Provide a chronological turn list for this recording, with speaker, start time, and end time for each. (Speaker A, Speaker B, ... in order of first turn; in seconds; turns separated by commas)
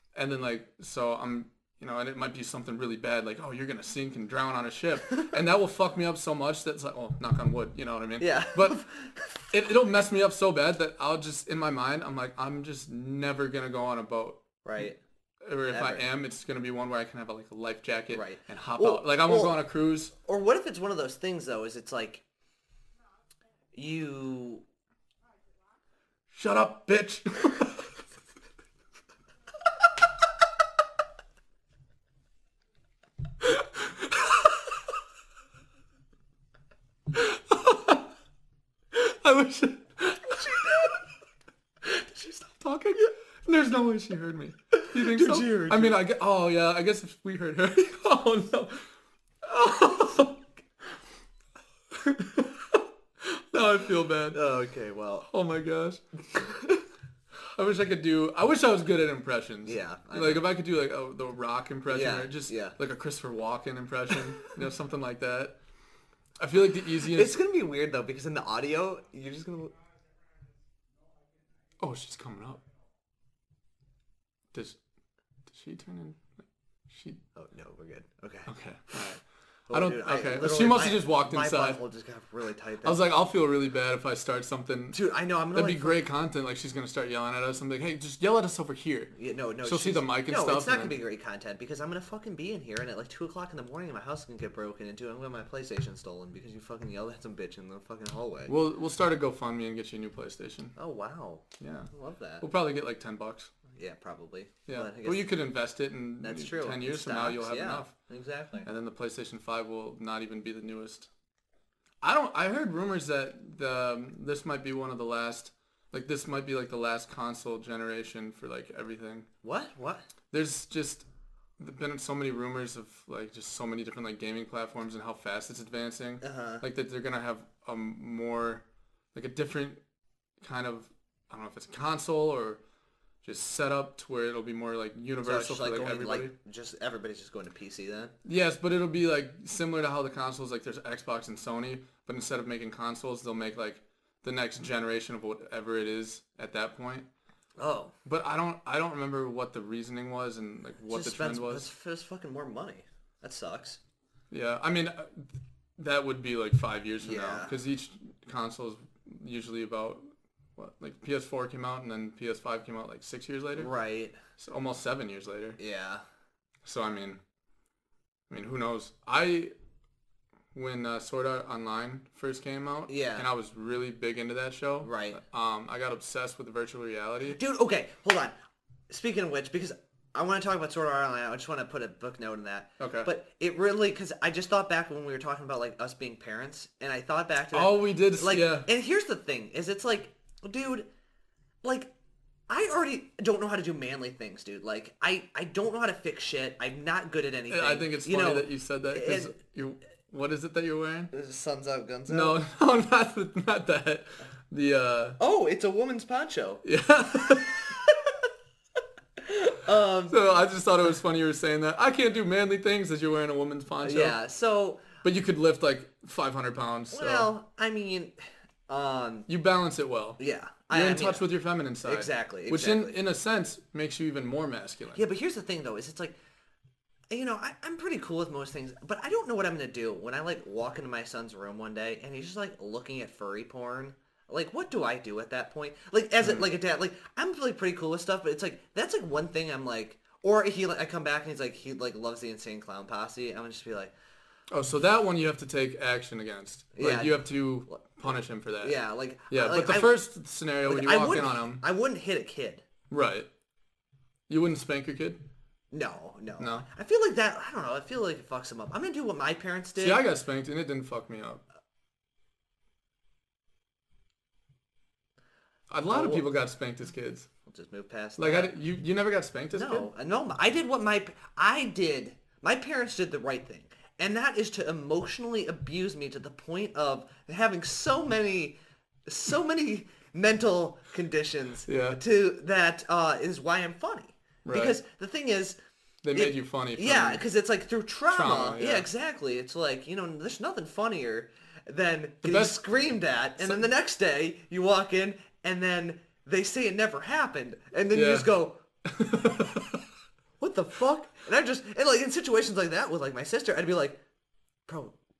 Speaker A: 0.1-8.8, Speaker B: 8.2-9.5, Speaker A: 9.5-14.4, Speaker B: 14.6-15.0, Speaker A: 15.4-20.1, Speaker B: 15.7-16.0, Speaker B: 18.1-19.6, Speaker B: 20.2-22.2, Speaker B: 23.7-24.6, Speaker A: 26.3-27.9, Speaker A: 33.4-34.6, Speaker A: 37.1-38.1, Speaker A: 38.9-41.0, Speaker B: 40.6-40.9, Speaker A: 41.8-48.9, Speaker B: 44.7-46.0, Speaker A: 49.4-50.5, Speaker A: 51.9-54.4, Speaker B: 54.3-55.3, Speaker A: 55.2-56.5, Speaker A: 57.4-65.5, Speaker B: 59.6-60.5, Speaker B: 61.9-62.8, Speaker A: 66.4-67.4, Speaker B: 67.0-69.7, Speaker A: 71.8-72.6, Speaker A: 74.5-74.8, Speaker A: 75.5-76.3, Speaker A: 76.9-77.2, Speaker B: 77.3-79.0, Speaker A: 78.5-81.8, Speaker B: 79.7-83.0, Speaker A: 82.8-85.0, Speaker B: 84.9-86.0, Speaker A: 85.5-89.1, Speaker B: 89.1-98.5, Speaker A: 89.6-90.9, Speaker A: 98.5-100.7, Speaker B: 100.8-102.4, Speaker A: 101.6-101.9, Speaker A: 102.4-103.5, Speaker B: 103.8-105.3, Speaker A: 104.7-107.9, Speaker B: 106.2-108.7, Speaker A: 108.6-111.1, Speaker A: 112.0-119.3, Speaker B: 119.4-120.0, Speaker A: 120.3-121.0, Speaker A: 121.6-129.8, Speaker B: 126.2-126.6, Speaker A: 130.4-132.6, Speaker A: 133.2-136.3, Speaker B: 135.2-138.1, Speaker A: 138.2-147.1, Speaker B: 147.6-147.9, Speaker A: 148.0-151.7, Speaker B: 150.9-153.8, Speaker A: 154.3-163.7, Speaker B: 157.0-157.6, Speaker B: 163.6-164.2, Speaker A: 164.4-165.6, Speaker B: 165.6-166.0, Speaker A: 166.6-167.2, Speaker A: 168.3-169.5, Speaker A: 170.5-177.4, Speaker B: 172.9-173.2, Speaker B: 174.8-175.2, Speaker B: 177.3-178.3, Speaker B: 178.9-190.9, Speaker A: 182.8-183.1, Speaker A: 187.5-188.7, Speaker B: 191.6-191.9, Speaker B: 192.5-199.3, Speaker A: 197.5-201.1, Speaker B: 201.1-202.4, Speaker A: 202.1-205.2, Speaker B: 205.2-206.6, Speaker A: 206.6-207.8, Speaker B: 209.2-210.2, Speaker A: 210.1-214.2, Speaker B: 213.8-214.8, Speaker A: 215.0-217.3, Speaker B: 216.9-218.1, Speaker B: 218.7-219.3, Speaker A: 219.3-225.0, Speaker B: 220.2-221.2, Speaker B: 221.8-222.9, Speaker B: 224.9-226.2, Speaker B: 227.1-243.9, Speaker A: 244.5-251.6, Speaker B: 246.7-248.1, Speaker B: 248.6-250.0, Speaker B: 250.6-252.6, Speaker A: 252.9-253.3, Speaker A: 254.3-255.2, Speaker B: 255.7-260.0, Speaker A: 256.4-256.6, Speaker A: 259.8-261.4, Speaker A: 265.7-267.3, Speaker B: 265.9-266.2, Speaker B: 267.4-268.5, Speaker A: 268.2-269.9, Speaker B: 269.5-285.6, Speaker A: 281.7-282.0, Speaker A: 284.4-284.8, Speaker A: 286.0-287.2, Speaker B: 286.1-298.6, Speaker A: 288.1-288.9, Speaker A: 292.2-292.6, Speaker A: 293.4-293.7, Speaker A: 297.9-298.3, Speaker A: 298.9-299.8, Speaker B: 300.4-304.0, Speaker B: 304.7-304.9